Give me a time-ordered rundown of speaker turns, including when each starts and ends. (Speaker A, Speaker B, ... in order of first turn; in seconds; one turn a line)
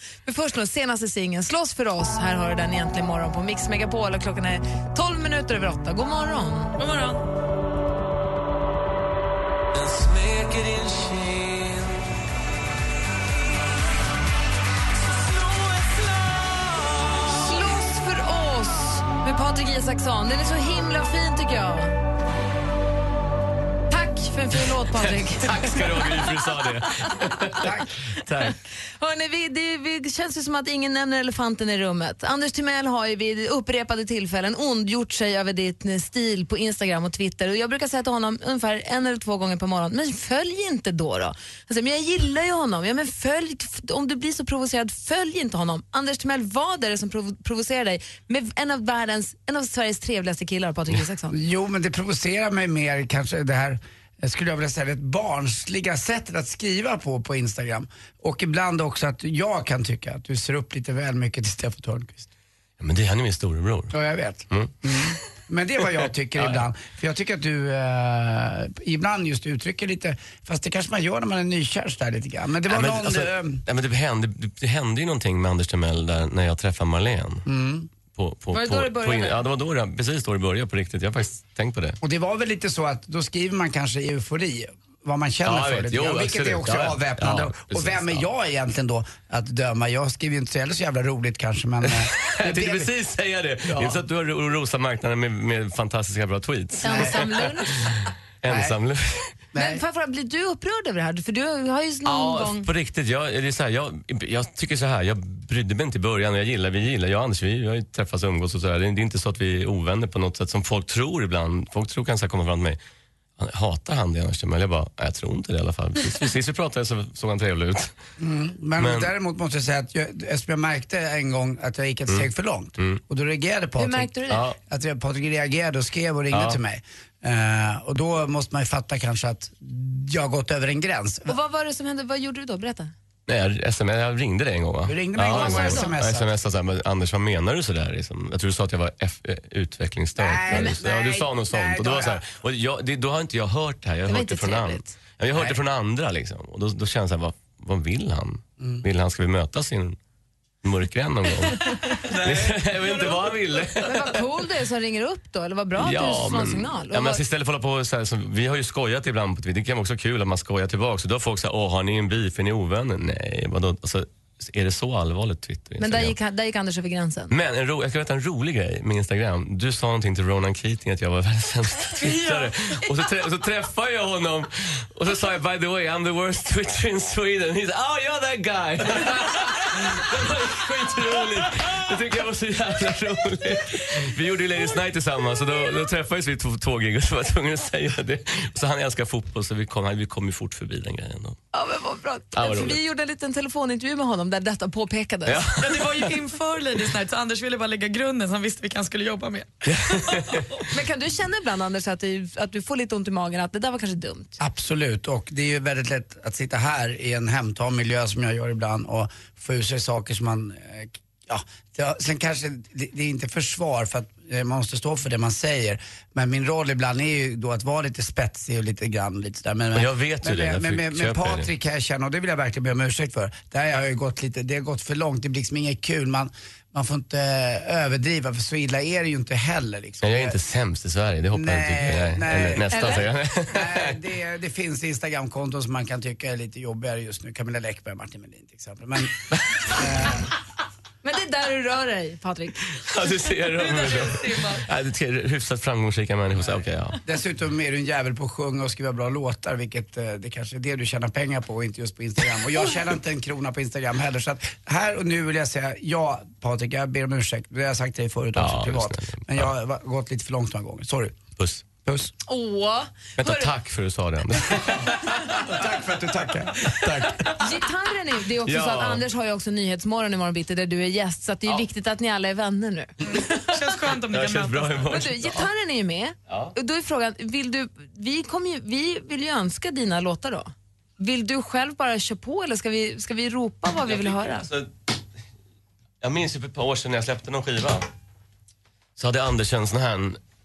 Speaker A: 0.2-6.8
Speaker B: 6.8-7.2
Speaker C: 9.7-12.1
Speaker B: 15.2-16.3
Speaker A: 17.3-22.0
Speaker A: 23.9-26.1
Speaker C: 24.9-28.6
Speaker D: 27.6-27.9
Speaker A: 29.0-51.4
Speaker D: 51.3-62.3
Speaker C: 62.8-63.9
Speaker D: 63.9-73.6
Speaker C: 64.5-65.1
Speaker C: 66.3-66.6
Speaker C: 72.7-77.4
Speaker D: 77.5-77.9
Speaker C: 78.1-82.0
Speaker A: 78.5-79.4
Speaker D: 82.0-92.9
Speaker C: 85.4-88.2
Speaker C: 91.8-97.5
Speaker D: 93.7-94.0
Speaker A: 96.8-97.9
Speaker D: 96.8-97.2
Speaker C: 98.4-99.3
Speaker D: 98.4-98.7
Speaker D: 99.5-99.8
Speaker A: 99.5-102.7
Speaker C: 102.0-112.8
Speaker C: 113.4-117.9
Speaker D: 118.2-124.1
Speaker C: 118.8-119.1
Speaker C: 122.1-123.0
Speaker A: 123.8-124.4
Speaker C: 124.3-124.6
Speaker D: 124.7-131.3
Speaker C: 126.3-126.6
Speaker A: 131.3-132.9
Speaker C: 133.3-150.0
Speaker D: 134.8-136.3
Speaker A: 135.3-135.9
Speaker D: 140.2-142.2
Speaker A: 140.5-140.8
Speaker A: 144.1-144.9
Speaker D: 148.6-148.8
Speaker C: 150.6-154.2
Speaker D: 152.2-152.6
Speaker A: 153.8-157.2
Speaker C: 155.8-166.2
Speaker A: 165.8-167.3
Speaker C: 167.3-191.4
Speaker B: 171.9-172.5
Speaker A: 191.5-195.4
Speaker C: 192.3-192.8
Speaker C: 195.2-196.2
Speaker B: 195.6-200.6
Speaker C: 199.7-200.6
Speaker A: 200.7-204.4
Speaker D: 204.4-230.3
Speaker C: 219.7-221.5
Speaker C: 230.0-233.9
Speaker D: 231.3-240.3
Speaker A: 232.7-233.1
Speaker A: 241.0-242.7
Speaker C: 242.8-247.0
Speaker B: 243.6-244.6
Speaker D: 247.1-261.2
Speaker C: 258.4-259.5
Speaker C: 261.4-261.6
Speaker D: 261.8-262.1
Speaker A: 262.2-263.5
Speaker C: 263.2-265.1
Speaker D: 265.4-267.2
Speaker C: 266.7-267.3
Speaker A: 267.3-273.4
Speaker C: 268.4-269.0
Speaker B: 273.1-274.9
Speaker C: 274.1-275.5
Speaker A: 274.9-284.5
Speaker C: 276.3-276.5
Speaker C: 283.8-284.7
Speaker C: 286.0-287.9
Speaker C: 289.0-290.2